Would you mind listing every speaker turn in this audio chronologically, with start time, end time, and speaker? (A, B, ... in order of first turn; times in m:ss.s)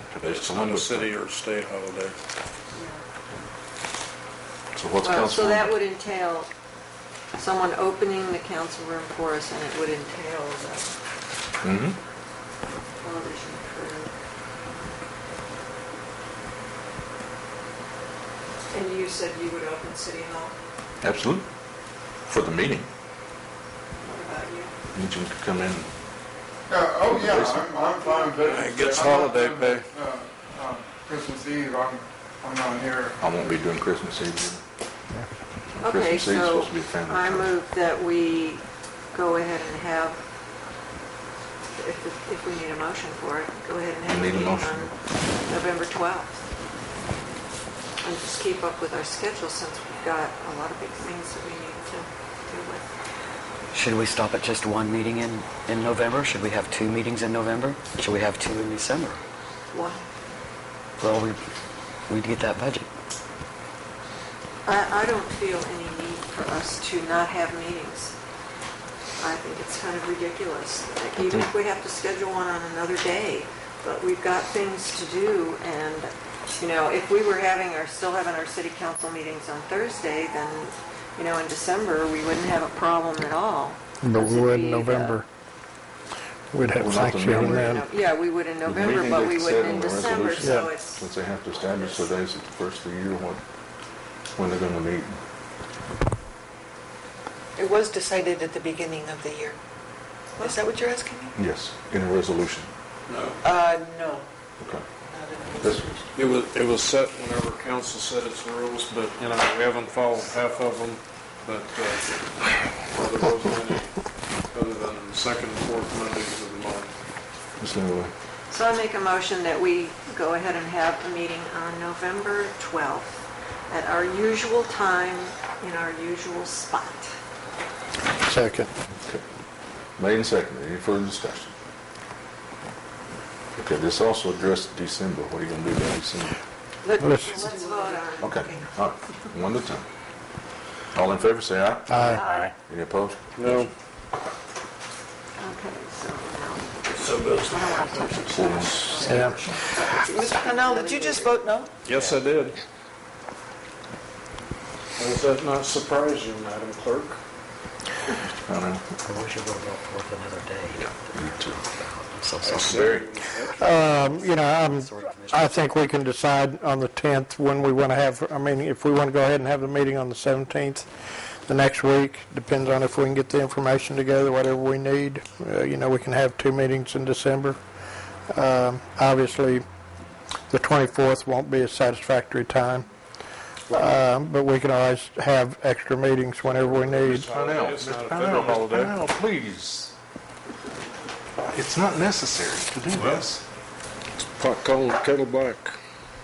0:00.1-0:01.1 A
0:00.2-0:02.2 B
0:02.7-0:03.0 C
0:04.7-0:05.8 A
0:05.0-0:06.5 C
0:07.4-0:10.9 C
0:11.6-0:12.0 A
0:13.0-0:14.1 C
0:18.7-0:20.5 C
0:21.0-0:21.5 A
0:22.3-0:22.9 A
0:24.0-0:24.7 C
0:24.9-0:25.9 A
0:26.7-0:33.2 D
0:27.0-0:27.7 A
0:27.5-0:29.4 C
0:28.5-0:29.9 B
0:33.2-0:34.6 A
0:35.7-0:37.6 A
0:35.8-0:40.2 C
0:41.7-0:46.4 C
0:44.1-0:44.9 A
0:48.0-0:52.8 C
0:53.7-0:59.2 E
0:59.7-1:00.0 C
1:01.0-1:01.4 E
1:02.1-1:02.9 E
1:04.6-1:08.1 C
1:09.2-1:25.2 C
1:24.0-1:25.2 F
1:26.5-1:27.8 F
1:26.7-1:27.7 A
1:27.2-1:31.1 C
1:28.6-1:33.4 A
1:30.4-1:30.7 F
1:31.6-1:32.1 C
1:34.4-1:35.1 A
1:37.6-1:39.6 G
1:40.4-1:41.3 G
1:41.3-1:42.7 A
1:43.1-1:43.4 B
1:43.4-1:44.2 G
1:45.1-1:46.0 G
1:45.6-1:45.9 A
1:46.1-1:54.0 B
1:54.5-1:56.9 B
1:57.6-1:58.1 A
1:58.5-2:07.1 C
2:08.2-2:08.7 F
2:10.0-2:11.5 A
2:13.6-2:16.4 A
2:16.8-2:18.7 C
2:17.0-2:17.4 F
2:17.6-2:18.0 G
2:18.2-2:19.8 A
2:20.9-2:22.1 A
2:21.9-2:22.4 F
2:22.1-2:22.5 C
2:22.6-2:23.7 A
2:23.4-2:23.7 B
2:25.4-2:31.4 C
2:26.9-2:28.1 B
2:28.3-2:29.1 A
2:29.0-2:29.4 F
2:30.1-2:31.7 G
2:31.8-2:32.6 B
2:35.0-2:37.2 B
2:38.5-2:38.8 A
2:39.0-2:42.8 E
2:42.4-2:43.7 B
2:42.6-2:43.1 A
2:43.5-2:45.7 E
2:43.5-2:50.9 F
2:51.4-2:57.6 F
2:58.3-2:59.6 F
3:00.5-3:02.9 F
3:03.7-3:07.3 F
3:06.4-3:08.9 B
3:07.3-3:09.9 A
3:11.4-3:13.4 A
3:12.9-3:13.2 B
3:14.4-3:15.8 B